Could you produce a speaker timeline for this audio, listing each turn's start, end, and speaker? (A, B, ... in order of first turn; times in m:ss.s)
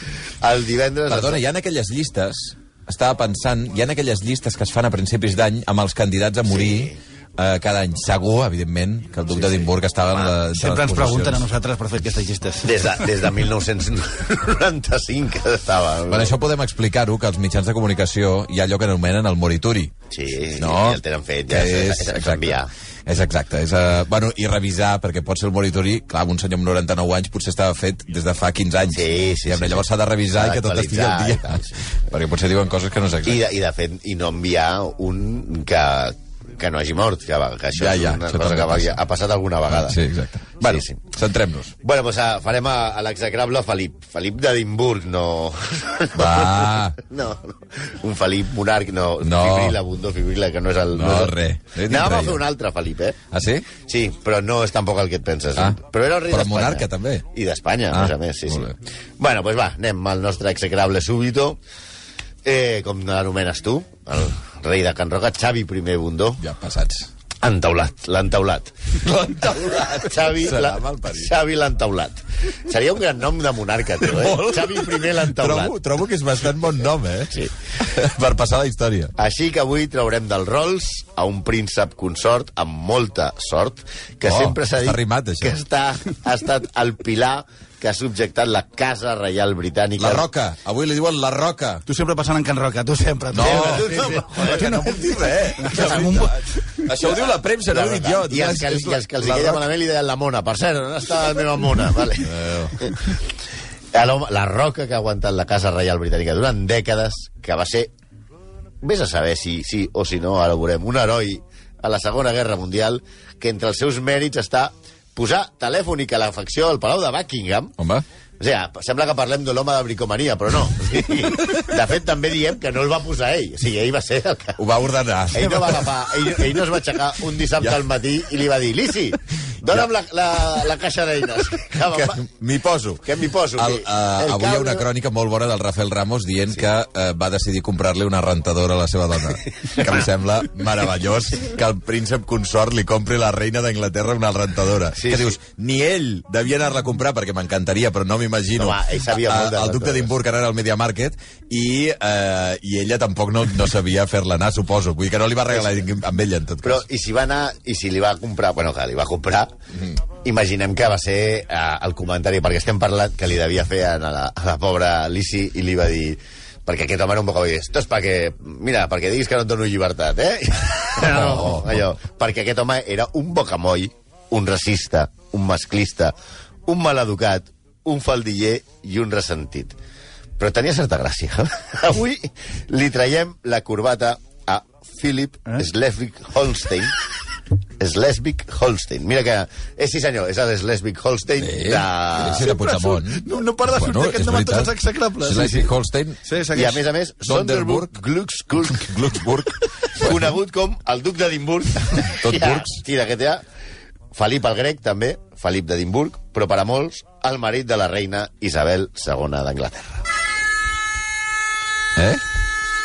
0:00.4-0:01.4 A
0:01.1-0:11.5 B
0:06.5-0:07.0 A
0:09.4-0:10.3 A
0:10.5-0:12.9 C
0:12.6-0:16.4 A
0:16.1-0:19.9 B
0:20.1-0:22.7 A
0:20.6-0:33.4 B
0:28.9-0:31.8 A
0:33.2-0:40.0 A
0:37.8-0:39.0 B
0:39.7-0:41.7 B
0:40.6-0:41.1 A
0:41.8-0:53.2 A
0:46.2-0:47.0 B
0:49.2-0:49.8 B
0:50.9-0:52.4 B
0:53.3-0:53.7 B
0:53.8-1:01.6 A
0:56.3-0:57.2 B
0:57.9-0:58.8 B
1:02.4-1:06.4 A
1:06.4-1:07.1 B
1:07.4-1:08.7 A
1:09.0-1:11.3 B
1:09.9-1:15.8 A
1:14.1-1:19.1 B
1:19.2-1:30.3 A
1:24.2-1:25.6 B
1:30.0-1:31.8 B
1:31.9-1:36.9 C
1:33.3-1:39.6 B
1:33.4-1:36.2 A
1:37.7-1:43.2 A
1:42.2-1:42.9 B
1:43.9-1:47.9 A
1:48.8-1:57.8 A
1:57.8-1:58.0 B
1:58.4-2:04.6 A
2:04.6-2:05.9 B
2:05.3-2:12.2 A
2:11.9-2:36.8 B
2:13.0-2:14.9 A
2:19.7-2:20.1 A
2:25.0-2:25.4 A
2:28.6-2:30.1 A
2:36.6-2:39.5 A
2:40.2-2:56.2 A
2:51.1-2:51.4 B
2:56.7-2:59.8 A
3:00.4-3:07.0 A
3:07.8-3:12.5 A
3:11.4-3:16.2 B
3:12.3-3:15.7 C
3:16.2-3:16.8 C
3:16.5-3:19.4 A
3:17.2-3:17.9 B
3:18.7-3:20.2 B
3:19.9-3:23.4 A
3:22.0-3:22.8 B
3:24.1-3:30.0 A
3:32.0-3:32.2 B